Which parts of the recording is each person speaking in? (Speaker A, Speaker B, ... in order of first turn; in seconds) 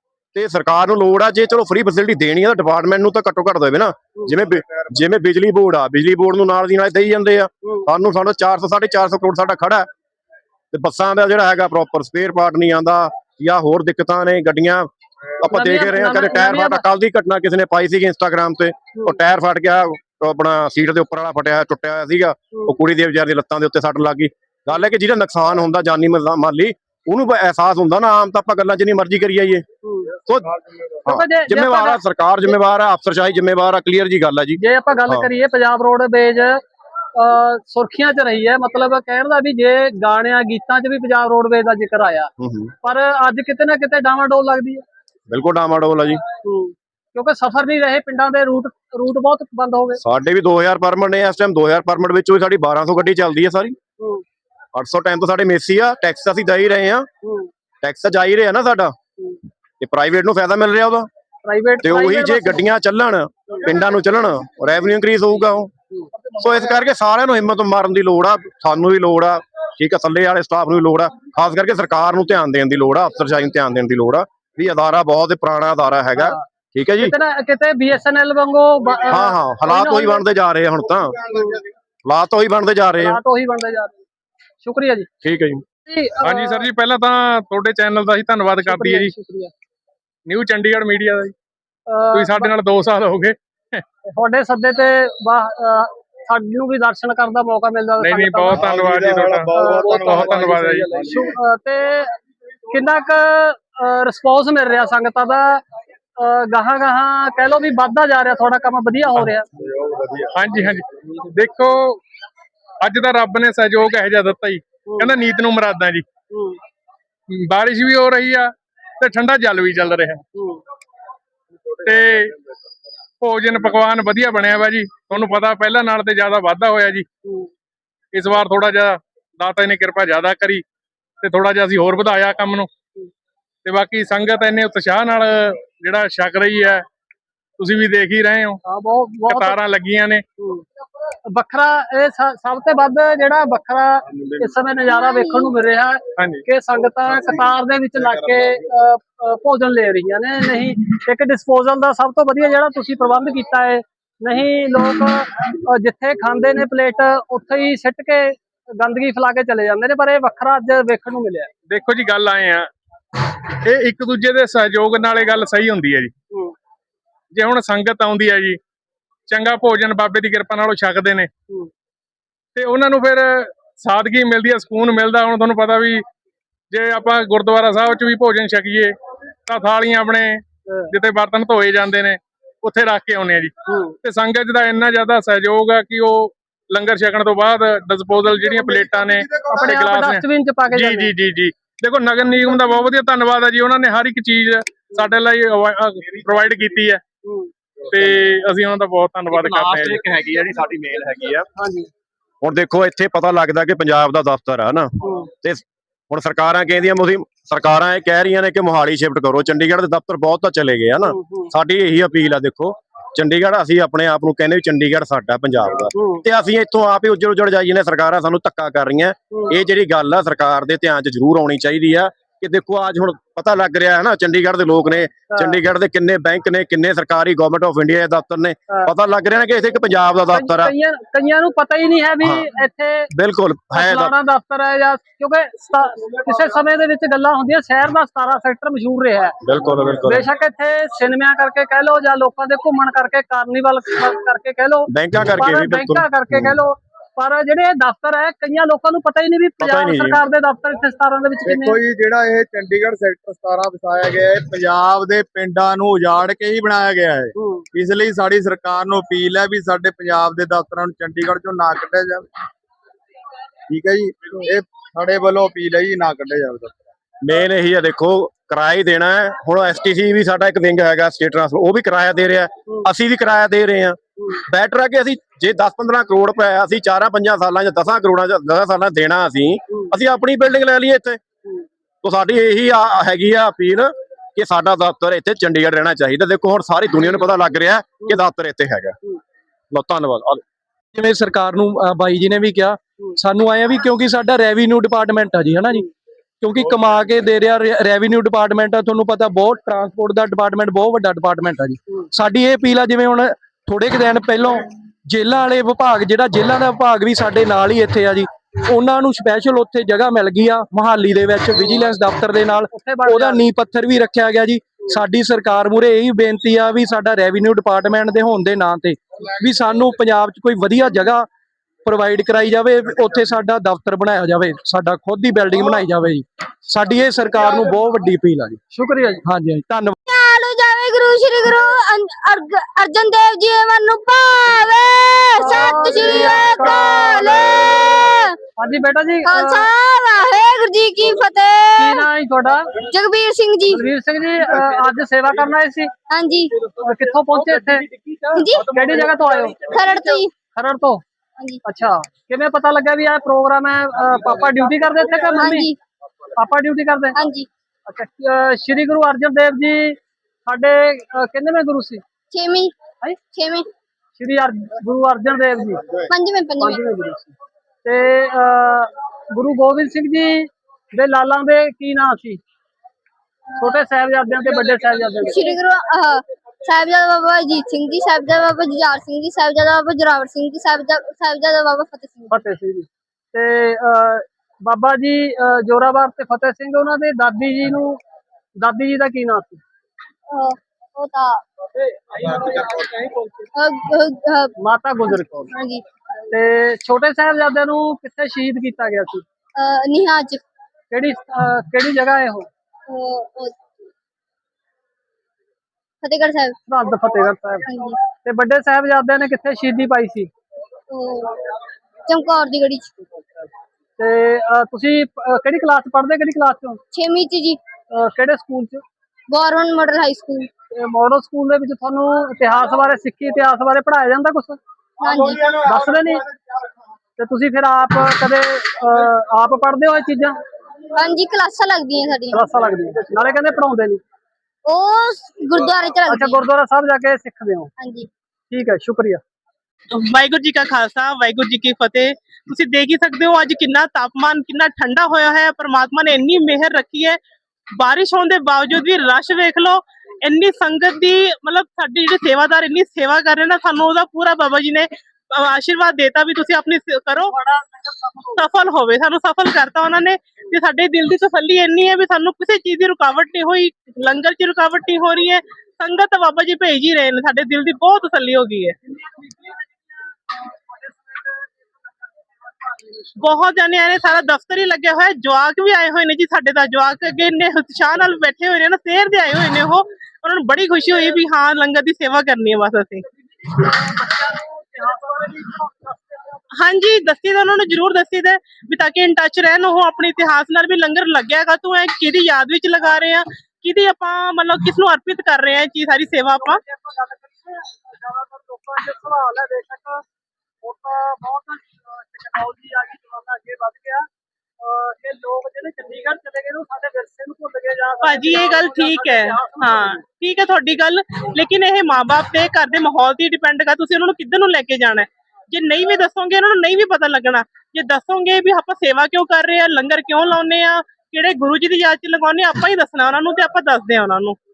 Speaker A: 0.3-9.9, 10.7-14.9, 15.4-29.6, 30.2-35.3, 42.4-42.7, 45.3-46.2, 50.0-53.7, 54.7-57.1, 57.8-58.9, 59.8-61.1, 61.8-65.7, 66.4-77.1, 79.1-81.5, 82.0-83.2, 85.2-85.6, 199.3-201.4, 202.4-230.7, 233.1-234.1, 239.4-240.2, 244.9-246.5, 249.6-250.2, 267.2-281.2, 282.0-289.0, 289.7-290.4
Speaker B: 15.5-16.8, 29.8-30.1, 31.1-32.0, 34.6-36.6, 37.1-42.3, 42.8-44.8, 46.4-50.0, 54.0-54.2, 57.2-57.5, 61.4-62.6, 76.2-76.4, 77.0-80.2, 81.3-81.6, 83.0-84.0, 84.6-85.1, 85.9-86.7, 88.6-89.5, 91.9-92.5, 94.0-98.7, 99.5-102.1, 102.7-105.6, 106.2-109.5, 114.9-115.1, 116.3-116.6, 120.3-120.6, 138.7-139.6, 140.4-140.7, 141.2-161.5, 183.7-184.0, 189.5-191.1, 197.2-197.5, 201.6-201.9, 205.0-205.3, 211.0-211.5, 215.9-216.2, 225.3-225.6, 230.3-233.1, 233.7-239.3, 240.0-251.8, 257.4-257.6, 312.7-313.5, 328.7-329.2, 335.4-339.7, 341.8-342.8, 343.7-345.9, 346.8-347.9, 348.6-349.6, 350.5-351.0, 351.6-355.7, 356.4-357.2, 357.9-362.0, 364.2-365.9, 366.6-367.3, 367.8-372.4, 373.6-375.5, 382.3-388.0, 388.6-389.6, 392.1-393.1, 394.6-395.5, 396.3-399.2, 400.9-402.5, 406.7-407.7, 408.2-410.3, 414.0-416.8, 417.9-418.8, 420.7-426.3, 427.2-430.4, 432.3-434.0, 436.1-437.7, 438.5-439.2, 457.3-458.4, 470.9-471.3, 472.5-472.9, 483.4-486.4, 496.4-500.0, 500.6-504.1, 504.6-510.0
Speaker C: 86.2-89.1, 90.3-91.3, 92.1-93.8, 98.0-100.9, 110.3-112.0, 112.8-116.0, 117.3-120.2, 121.8-122.3, 123.2-127.0, 128.1-130.6, 131.2-132.7, 133.6-136.8, 137.6-138.6, 139.3-140.2, 146.2-146.4, 161.7-162.7, 163.6-166.1, 167.3-168.6, 169.3-171.3, 172.5-176.0, 176.7-178.9, 179.4-197.0, 197.9-200.0
Speaker D: 98.5-101.3, 109.6-110.3, 251.4-262.3, 263.7-266.9
Speaker E: 144.8-145.5, 330.1-338.4, 339.2-342.1, 342.8-343.8, 346.1-346.5, 348.3-348.7, 349.6-350.3, 355.3-355.8, 357.1-357.5, 362.3-362.7, 363.3-363.7, 366.1-366.8, 375.2-382.4, 390.3-391.4, 393.5-394.5, 395.1-395.8, 399.6-400.4, 402.9-403.6, 406.0-406.6, 407.6-408.0, 410.9-411.4, 412.1-413.0, 416.9-417.6, 419.3-420.5, 425.0-425.5, 430.9-432.4, 434.6-436.4, 437.8-438.1
Speaker F: 290.9-295.9, 296.4-321.3, 321.8-328.6, 329.2-330.0, 347.3-349.7
Speaker G: 439.9-447.2, 447.8-457.3, 458.4-468.7, 473.2-483.0, 486.6-496.6, 508.0-524.4